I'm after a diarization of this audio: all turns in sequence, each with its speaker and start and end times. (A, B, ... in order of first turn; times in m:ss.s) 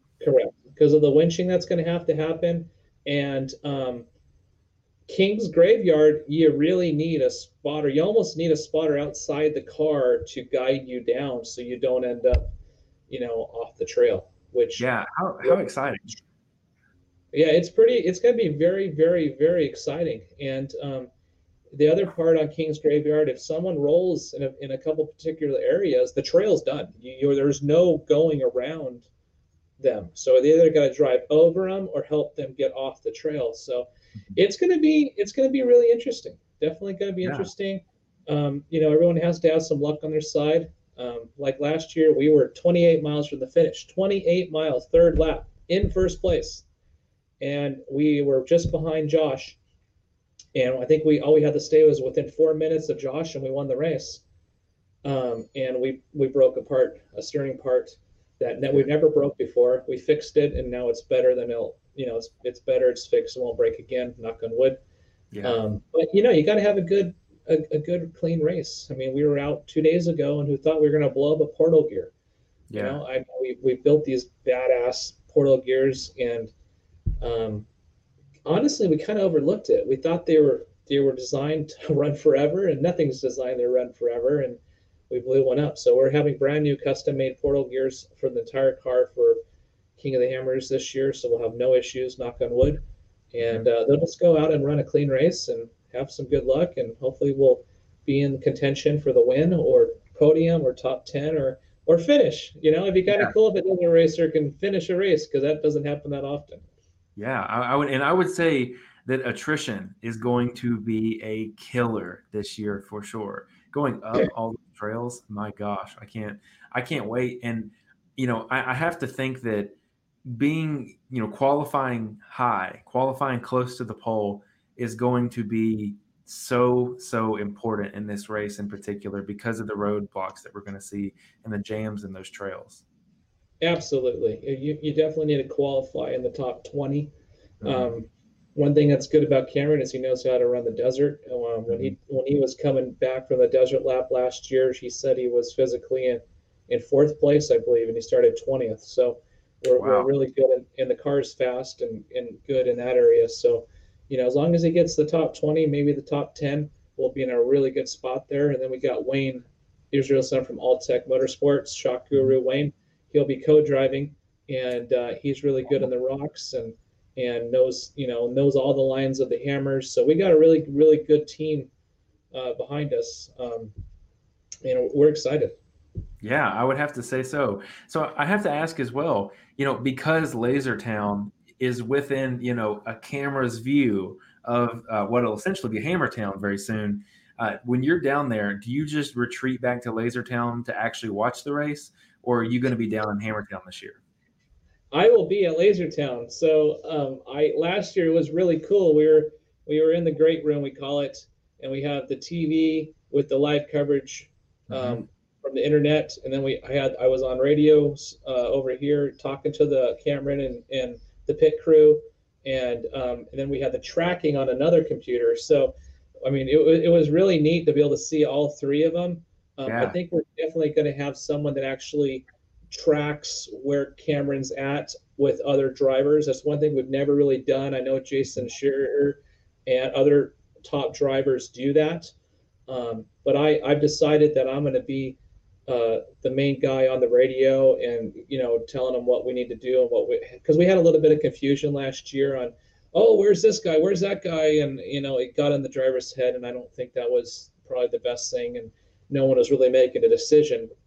0:00.2-0:04.1 A
0:05.1-0:12.5 A
0:13.1-0:14.9 A
0:14.8-0:16.2 B
0:15.4-0:16.2 A
0:17.3-0:21.1 A
0:21.7-0:29.1 A
0:29.8-0:46.6 A
0:47.4-0:49.6 A
0:50.6-0:54.2 A
0:55.0-1:04.8 A
1:05.3-1:05.6 B
1:05.4-1:12.1 A
1:12.7-1:13.0 B
1:12.7-1:16.5 A
1:17.2-1:17.7 A
1:18.4-1:29.4 A
1:30.0-1:32.8 A
1:33.3-1:46.6 A
1:47.2-1:59.7 B
2:00.2-2:12.8 B
2:13.6-2:17.1 A
2:17.6-2:17.9 B
2:17.6-2:51.7 A
2:21.7-2:21.9 B
2:29.8-2:30.1 B
2:52.3-2:53.7 A
2:54.6-2:55.6 A
2:56.2-3:14.0 B
3:14.9-3:52.1 A
3:24.7-3:25.0 B
3:39.7-3:40.0 B
3:52.7-4:10.7 A